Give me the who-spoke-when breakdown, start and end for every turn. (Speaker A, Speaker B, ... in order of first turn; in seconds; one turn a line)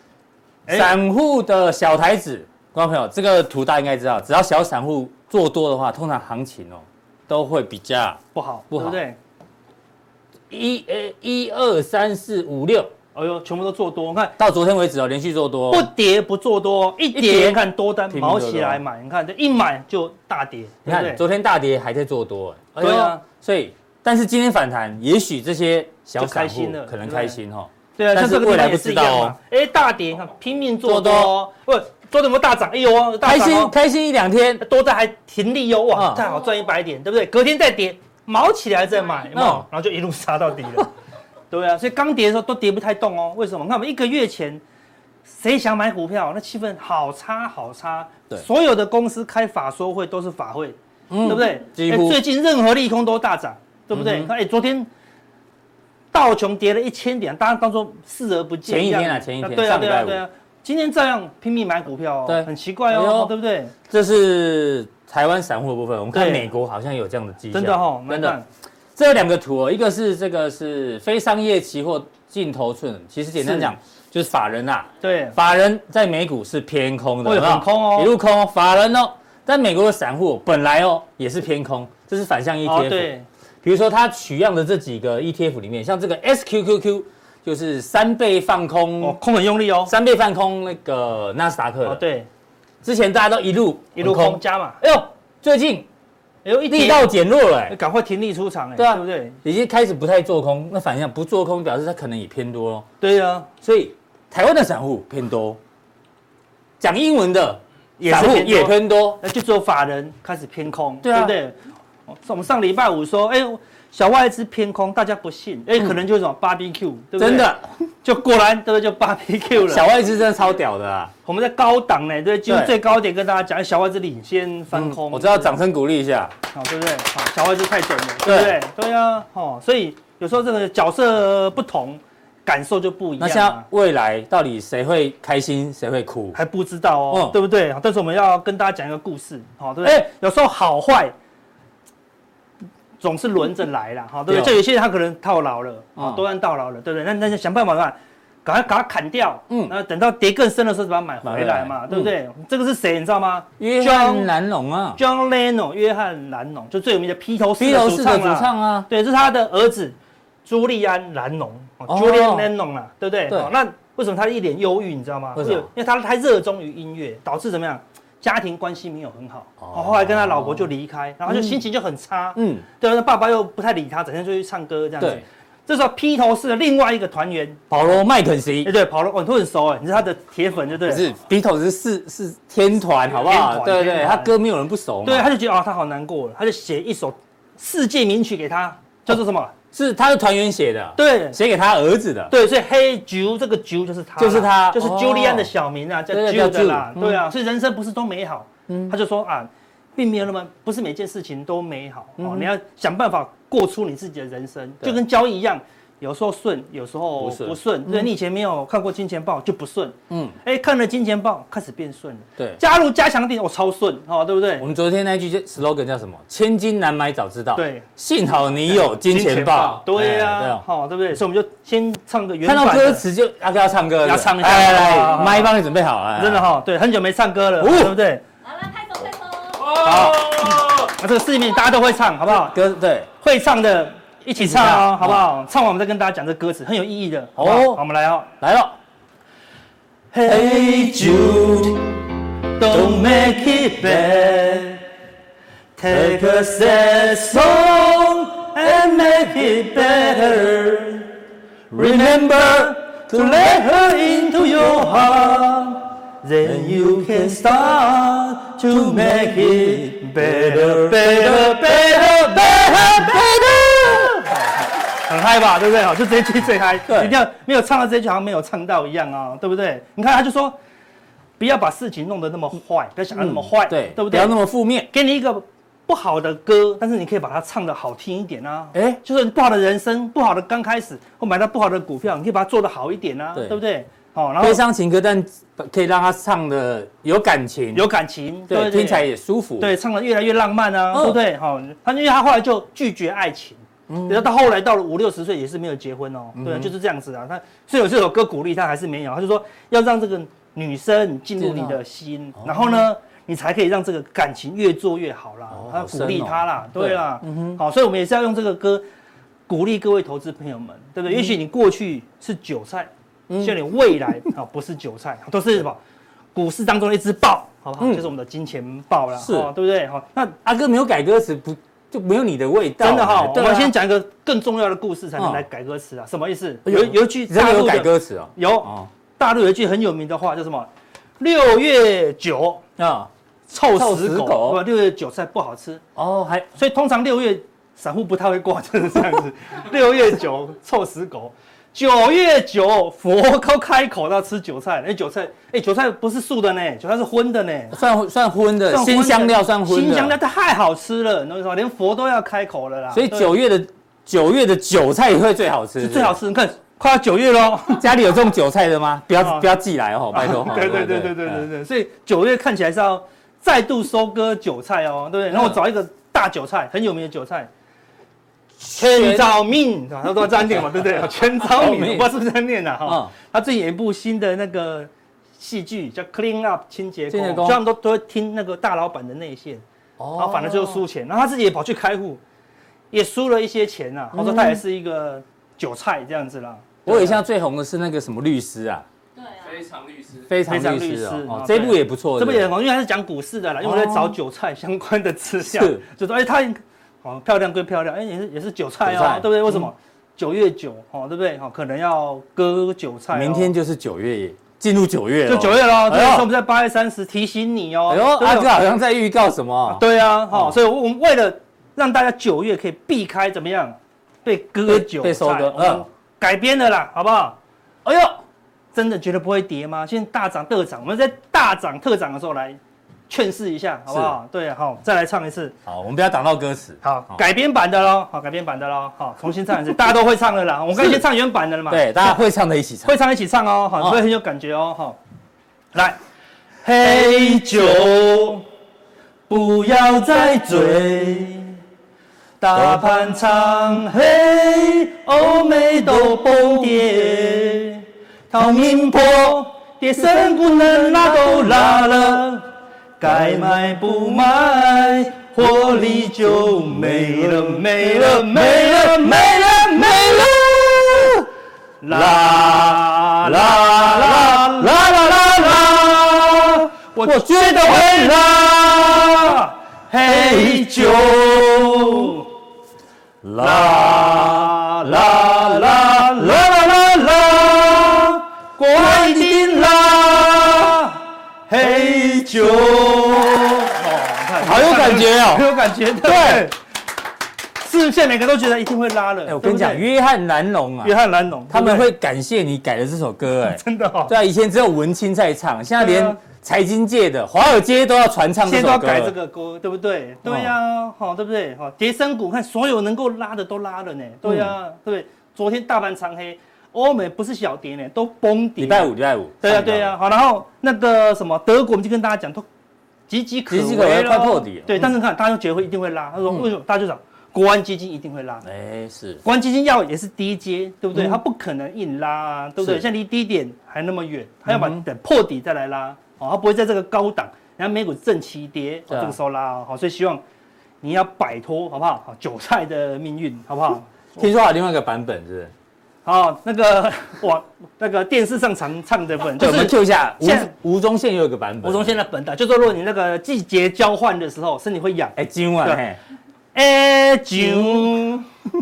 Speaker A: 0.7-0.9
Speaker B: 0.7-8.2
Speaker A: 8.3-9.2
Speaker B: 8.7-9.0
Speaker B: 10.5-12.9
Speaker A: 13.2-14.3
Speaker B: 14.4-15.9
Speaker A: 15.7-21.2
Speaker B: 17.1-18.8
Speaker B: 20.9-29.4
Speaker A: 22.8-23.2
Speaker A: 26.2-27.4
Speaker A: 28.0-33.7
Speaker B: 30.8-31.3
Speaker B: 33.2-34.6
Speaker A: 34.6-40.9
Speaker B: 35.9-36.2
Speaker B: 39.3-39.7
Speaker A: 41.5-44.6
Speaker A: 45.3-54.9
Speaker B: 51.1-52.2
Speaker B: 53.9-54.3
Speaker A: 56.1-63.7
Speaker B: 58.7-60.2
Speaker B: 62.3-63.3
Speaker B: 63.9-68.4
Speaker A: 66.1-66.5
Speaker A: 67.5-68.5
Speaker B: 69.0-83.1
Speaker A: 73.4-73.7
Speaker A: 75.0-75.4
Speaker A: 77.2-78.1
Speaker A: 82.7-83.3
Speaker B: 83.6-89.2
Speaker A: 89.0-89.9
Speaker B: 89.9-92.0
Speaker A: 91.8-92.3
Speaker B: 92.8-95.9
Speaker A: 94.0-94.8
Speaker A: 96.5-97.1
Speaker B: 96.7-97.8
Speaker A: 97.7-99.4
Speaker B: 98.8-102.9
Speaker A: 103.0-103.5
Speaker B: 103.6-105.6
Speaker B: 106.8-109.2
Speaker A: 108.0-117.5
Speaker B: 111.0-111.3
Speaker B: 117.2-117.7
Speaker A: 118.0-119.9
Speaker B: 119.7-121.1
Speaker A: 121.2-125.6
Speaker B: 122.5-122.8
Speaker B: 124.7-126.3
Speaker A: 126.5-133.7
Speaker B: 128.2-128.6
Speaker B: 133.2-136.4
Speaker A: 136.3-141.1
Speaker B: 137.1-137.3
Speaker A: 143.0-154.3
Speaker B: 144.3-144.6
Speaker B: 146.0-146.2
Speaker B: 151.2-152.1
Speaker B: 153.6-155.0
Speaker A: 155.0-177.6
Speaker B: 157.6-158.9
Speaker B: 161.9-162.5
Speaker B: 165.4-165.7
Speaker B: 169.6-170.7
Speaker B: 171.3-171.6
Speaker B: 172.4-172.7
Speaker B: 177.7-178.7
Speaker A: 178.6-181.1
Speaker B: 180.9-185.3
Speaker A: 183.1-184.3
Speaker A: 185.0-189.5
Speaker B: 189.7-192.3
Speaker A: 191.0-191.4
Speaker A: 192.3-214.7
Speaker B: 194.2-195.5
Speaker B: 196.1-197.2
Speaker B: 198.7-198.9
Speaker B: 202.2-202.5
Speaker B: 207.2-208.1
Speaker B: 210.1-210.4
Speaker B: 214.6-220.6
Speaker A: 217.6-217.9
Speaker A: 218.7-223.0
Speaker B: 222.4-226.5
Speaker A: 224.0-225.5
Speaker A: 226.2-228.2
Speaker B: 227.6-228.0
Speaker C: 228.4-229.8
Speaker B: 229.7-230.9
Speaker A: 229.7-232.6
Speaker B: 232.3-233.1
Speaker A: 233.2-238.3
Speaker B: 234.4-235.3
Speaker B: 237.4-237.8
Speaker B: 238.4-238.8
Speaker A: 240.1-244.8
Speaker B: 241.3-241.8
Speaker B: 242.7-243.2
Speaker A: 245.8-251.1
Speaker B: 245.9-246.5
Speaker A: 251.7-270.6
Speaker B: 253.1-253.4
Speaker B: 256.5-256.7
Speaker B: 260.2-264.3
Speaker B: 266.9-267.1
Speaker A: 271.4-274.4
Speaker B: 273.1-274.9
Speaker A: 274.9-284.6
Speaker B: 278.7-279.0
Speaker B: 284.4-287.9
Speaker A: 287.7-289.1
Speaker B: 288.5-289.7
Speaker A: 289.6-308.8
Speaker B: 290.9-291.2
Speaker B: 293.9-294.3
Speaker B: 296.4-296.7
Speaker B: 301.4-301.8
Speaker B: 302.4-302.9
Speaker B: 305.5-307.6
Speaker A: 309.5-315.8
Speaker B: 313.3-313.6
Speaker A: 316.4-320.4
Speaker B: 317.8-318.1
Speaker B: 319.2-319.5
Speaker B: 320.4-323.8
Speaker A: 322.8-332.6
Speaker B: 325.2-325.4
Speaker B: 326.7-328.9
Speaker B: 332.8-333.1
Speaker A: 333.5-335.8
Speaker B: 333.7-334.6
Speaker B: 336.0-336.5
Speaker A: 336.5-347.8
Speaker B: 347.7-350.2
Speaker A: 348.7-353.3
Speaker B: 352.9-356.1
Speaker A: 355.8-357.9
Speaker B: 357.7-361.5
Speaker A: 359.2-359.5
Speaker A: 360.1-367.5
Speaker B: 365.3-365.6
Speaker B: 368.6-369.4
Speaker A: 368.6-379.6
Speaker B: 370.5-372.1
Speaker B: 372.9-373.1
Speaker B: 377.1-377.6
Speaker B: 380.0-380.8
Speaker A: 380.1-382.2
Speaker A: 382.9-387.2
Speaker B: 384.1-384.6
Speaker B: 386.9-388.9
Speaker C: 389.2-389.7
Speaker B: 389.9-392.5
Speaker A: 390.4-403.5
Speaker B: 393.6-394.2
Speaker B: 395.4-395.8
Speaker B: 398.8-399.7
Speaker B: 403.1-406.3
Speaker A: 405.3-408.5
Speaker B: 407.9-410.6
Speaker A: 409.7-417.4
Speaker B: 414.7-415.9
Speaker B: 417.9-418.2
Speaker A: 418.7-422.6
Speaker A: 423.1-425.6
Speaker B: 423.9-424.2
Speaker B: 425.7-427.2
Speaker A: 426.8-432.2
Speaker B: 430.8-431.0
Speaker B: 431.7-433.0
Speaker A: 432.9-435.0
Speaker A: 435.7-436.0
Speaker A: 436.6-438.4
Speaker A: 439.3-441.6
Speaker A: 442.4-460.3
Speaker B: 457.8-461.3
Speaker A: 461.8-464.8
Speaker B: 461.9-469.3
Speaker A: 466.2-472.3
Speaker B: 470.1-472.1
Speaker B: 473.2-477.5
Speaker A: 473.4-476.5
Speaker A: 477.1-486.6
Speaker B: 478.8-479.3
Speaker B: 484.4-486.5
Speaker A: 487.6-489.9
Speaker B: 489.3-490.9
Speaker A: 490.8-491.9
Speaker B: 491.5-499.2
Speaker A: 493.5-494.1
Speaker A: 495.8-496.2
Speaker A: 498.4-512.5
Speaker B: 500.3-500.6
Speaker B: 504.2-504.5
Speaker B: 508.6-510.0
Speaker A: 513.1-518.5
Speaker B: 513.5-514.9
Speaker B: 518.5-519.2
Speaker A: 519.2-530.2
Speaker B: 520.9-521.2
Speaker B: 522.6-522.9
Speaker B: 524.5-524.8
Speaker B: 528.9-529.2
Speaker A: 530.8-533.9
Speaker B: 534.2-535.5
Speaker A: 536.0-540.5
Speaker B: 539.4-542.0
Speaker A: 541.6-545.8
Speaker B: 545.2-546.0
Speaker A: 546.5-548.3
Speaker B: 547.4-547.8